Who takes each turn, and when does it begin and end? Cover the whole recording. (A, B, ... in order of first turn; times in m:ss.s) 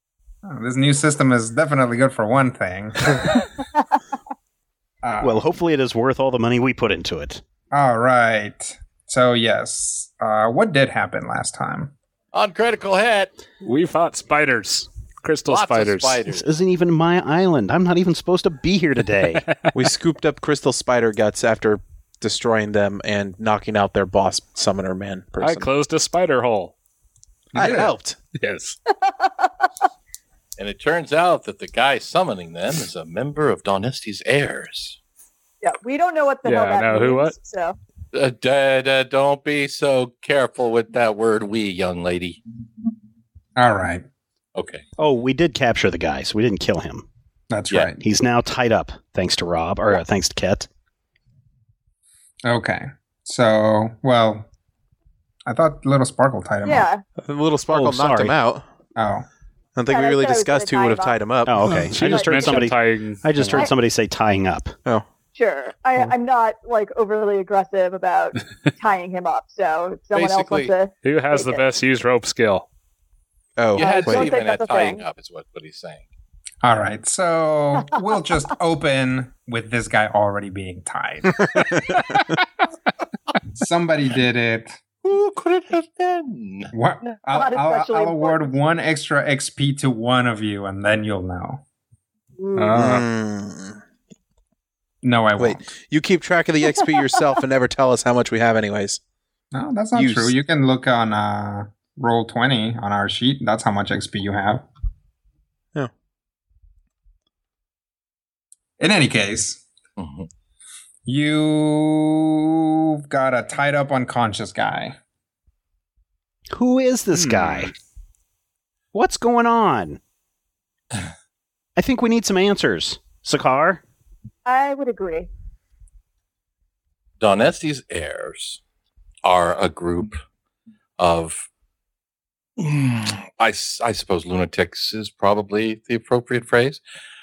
0:00.4-0:03.5 A
0:05.0-0:05.4 A
0:05.2-0:07.4 B
0:07.7-0:11.9 A
0:12.3-0:13.3 C
0:13.6-0:16.2 D
0:15.5-0:16.4 C
0:16.3-0:19.4 B
0:19.7-0:25.7 E
0:25.4-0:26.7 D
0:27.6-0:28.0 A
0:27.6-0:28.2 E
0:28.4-0:28.8 D
0:28.9-0:29.7 F
0:30.6-0:35.0 C
0:35.6-0:37.8 F
0:36.4-0:37.4 D
0:38.1-0:42.4 C
0:43.6-0:44.0 A
0:44.6-0:44.8 C
0:45.0-0:47.0 B
0:47.5-0:48.0 A
0:48.0-0:50.7 B
0:52.4-0:54.5 A
0:55.5-0:56.9 A
0:56.6-0:57.0 F
0:57.2-0:58.6 E
0:57.7-0:58.4 B
0:59.0-0:59.2 A
0:59.8-1:01.6 E
0:59.9-1:01.2 F
1:01.5-1:04.7 B
1:01.6-1:03.7 D
1:02.0-1:02.7 F
1:05.4-1:11.6 F
1:10.1-1:10.7 C
1:11.0-1:12.7 D
1:13.6-1:14.3 E
1:13.8-1:16.1 C
1:13.8-1:15.0 F
1:16.6-1:22.1 A
1:21.4-1:22.2 E
1:23.5-1:24.8 A
1:25.0-1:26.7 C
1:26.7-1:31.6 A
1:27.2-1:28.6 F
1:32.4-1:32.8 F
1:32.6-1:33.0 A
1:32.7-1:33.8 E
1:35.0-1:35.7 A
1:35.4-1:39.0 E
1:39.5-1:44.6 A
1:39.9-1:40.4 E
1:48.8-1:49.6 A
1:50.0-1:50.3 C
1:51.1-1:55.0 A
1:56.5-1:57.7 B
1:57.1-1:57.7 D
1:58.9-2:00.0 B
2:01.8-2:03.8 B
2:04.5-2:05.3 F
2:07.2-2:08.6 C
2:09.2-2:10.2 C
2:11.0-2:11.5 C
2:12.6-2:16.8 C